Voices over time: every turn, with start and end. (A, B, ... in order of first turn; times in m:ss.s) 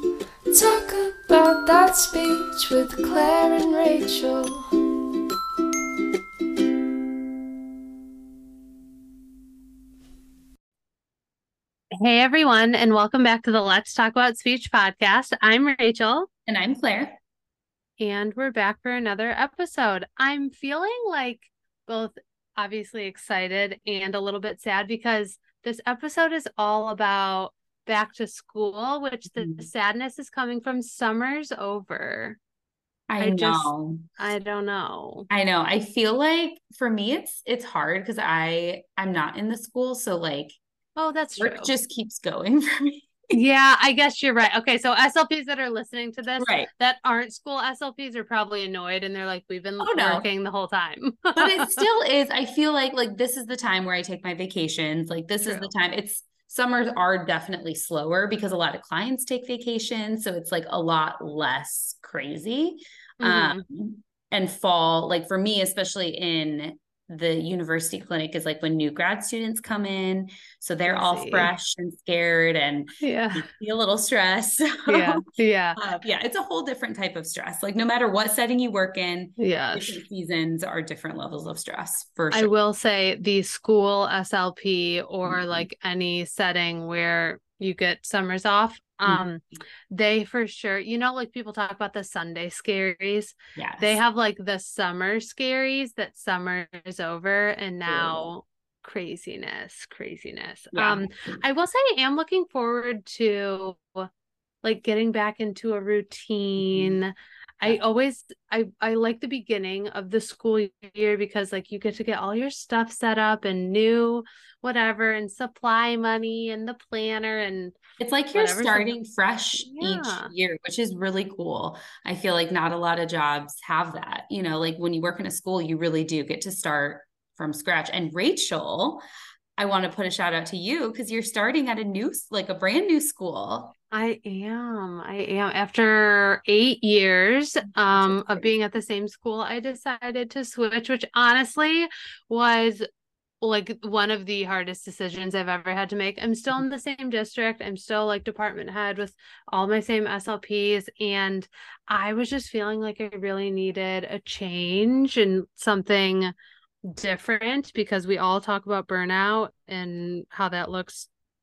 0:00.5-0:04.6 A
0:12.0-0:16.3 B
0:16.5-0:17.2 C
0:18.0-0:32.4 B
0:29.3-0:29.7 C
0:33.1-0:34.0 C
0:33.2-0:35.3 B
0:35.3-0:40.6 C
0:41.0-0:41.7 B
0:41.4-0:43.4 C
0:43.3-0:51.9 B
0:46.4-0:46.7 C
0:49.8-0:50.3 C
0:51.4-1:15.2 C
0:55.4-0:55.7 B
1:03.2-1:03.6 B
1:10.9-1:11.5 B
1:13.0-1:13.5 B
1:14.9-1:15.8 B
1:15.8-1:22.5 C
1:19.4-1:20.0 B
1:22.3-1:44.1 B
1:25.2-1:25.7 C
1:33.6-1:34.0 C
1:37.8-1:38.3 C
1:40.7-1:41.4 C
1:44.6-1:57.8 B
1:46.6-1:47.0 C
1:58.0-2:09.0 C
1:58.3-1:59.0 B
1:59.6-2:00.3 B
2:09.6-2:13.8 C
2:13.9-2:22.8 B
2:17.6-2:18.5 C
2:23.4-2:41.1 B